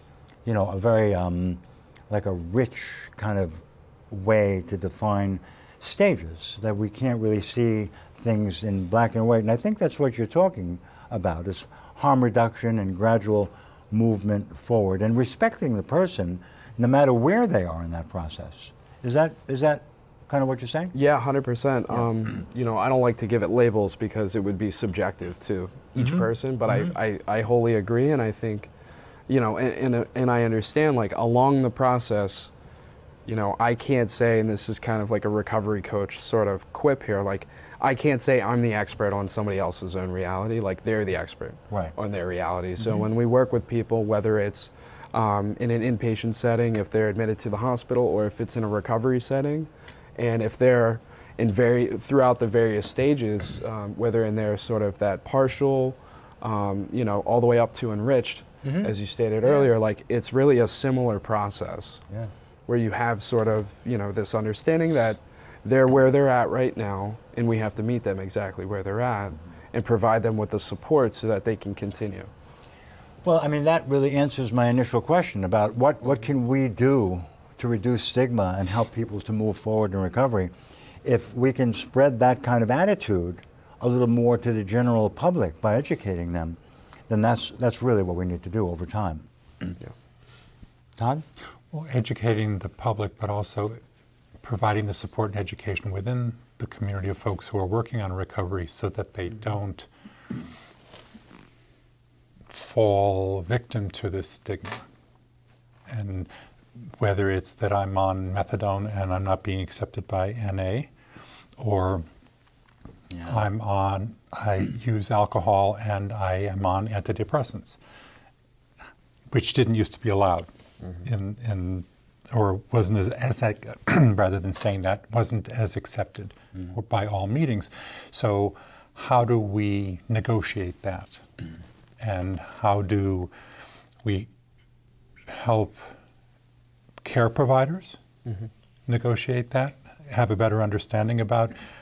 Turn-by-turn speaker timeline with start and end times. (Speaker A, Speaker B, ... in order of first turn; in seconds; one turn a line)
Speaker A: 0.5-20.9
Speaker B: 20.9-28.7
Speaker A: 25.9-26.9
Speaker B: 29.3-32.5
Speaker B: 33.2-62.0
Speaker A: 58.6-58.9
Speaker B: 62.7-72.3
Speaker A: 73.2-89.7
Speaker A: 91.0-91.2
Speaker C: 91.7-93.8
Speaker C: 94.4-99.9
Speaker C: 102.5-104.8
Speaker C: 105.9-106.3
Speaker C: 106.8-110.9
Speaker C: 111.6-112.0
Speaker A: 113.1-113.4
Speaker C: 113.2-117.8
Speaker C: 119.3-131.2
Speaker C: 132.0-133.3
Speaker C: 134.0-134.3
Speaker C: 135.3-135.9
Speaker C: 137.0-138.0
Speaker C: 138.9-141.5